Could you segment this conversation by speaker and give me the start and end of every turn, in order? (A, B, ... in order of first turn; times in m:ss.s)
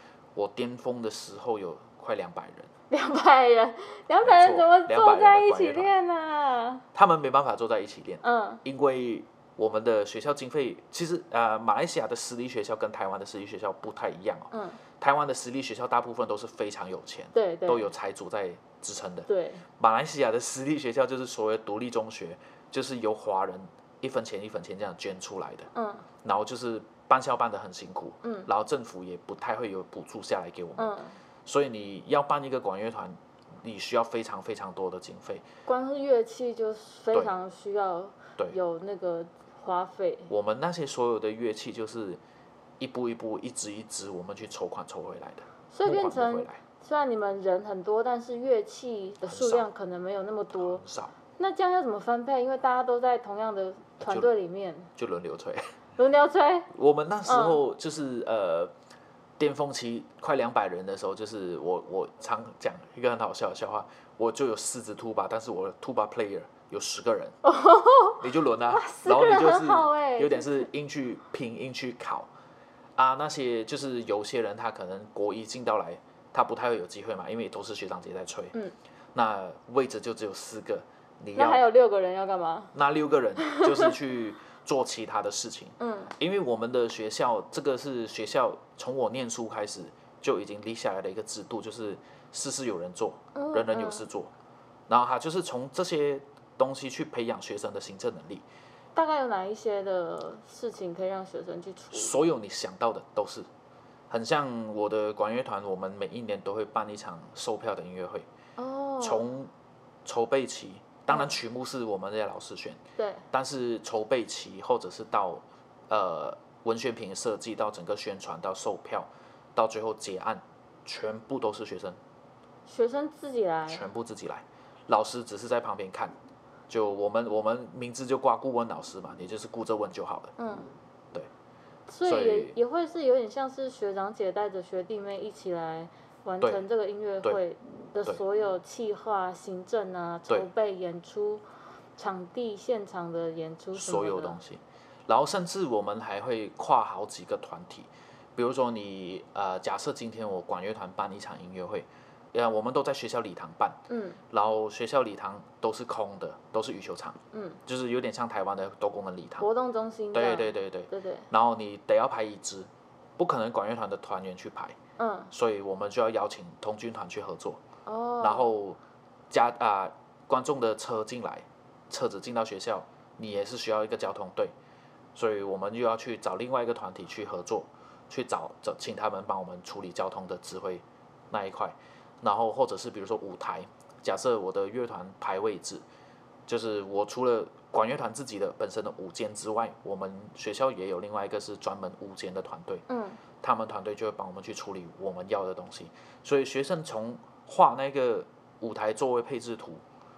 0:00.4-0:02.7 A
0:02.9-0:06.8 B
0:04.2-0:05.9 A
0:06.9-0:25.7 A
0:08.2-0:08.6 B
0:14.5-0:14.8 B
0:17.3-0:17.9 B
0:19.3-0:19.6 B
0:25.7-0:26.0 B
0:26.2-0:30.9 A
0:28.2-0:28.5 B
0:30.8-0:31.2 B
0:31.4-0:35.5 A
0:35.7-0:40.3 B
0:40.3-0:42.2 A
0:42.8-0:46.6 A
0:45.7-0:50.8 B
0:49.3-0:49.7 A
0:50.6-0:51.1 A
0:51.4-0:54.9 B
0:54.0-0:54.3 A
0:55.0-0:55.6 A
0:56.0-0:56.7 B
0:56.7-0:58.7 A
0:57.3-0:57.6 B
0:59.4-1:07.4 A
1:07.4-1:10.7 B
1:08.2-1:12.3 A
1:13.0-1:18.6 A
1:19.1-1:21.6 A
1:21.4-1:22.7 B
1:22.7-1:34.3 A
1:23.4-1:23.9 B
1:25.8-1:26.1 B
1:33.4-1:34.0 B
1:34.9-1:38.4 A
1:39.0-1:42.2 B
1:41.9-1:43.5 A
1:44.1-1:48.3 A
1:48.6-1:49.3 B
1:49.0-1:49.5 A
1:50.0-1:52.8 A
1:53.0-1:53.2 B
1:53.3-2:02.0 A
2:02.7-2:03.8 B
2:03.7-2:06.2 A
2:06.7-2:10.3 A
2:10.4-2:10.7 B
2:11.9-2:21.4 B
2:12.0-2:12.5 A
2:22.0-2:24.4 B
2:23.8-2:33.8 A
2:33.9-2:34.2 B
2:34.3-2:39.5 A
2:37.3-2:37.6 B
2:39.4-2:41.3 B
2:40.1-2:44.8 A
2:45.0-2:45.3 B
2:45.3-2:47.6 A
2:47.9-2:48.5 B
2:48.2-2:48.8 A
2:49.3-2:54.6 A
2:55.2-3:05.8 A
3:06.5-3:12.8 A
3:12.9-3:13.2 B
3:13.4-3:19.8 A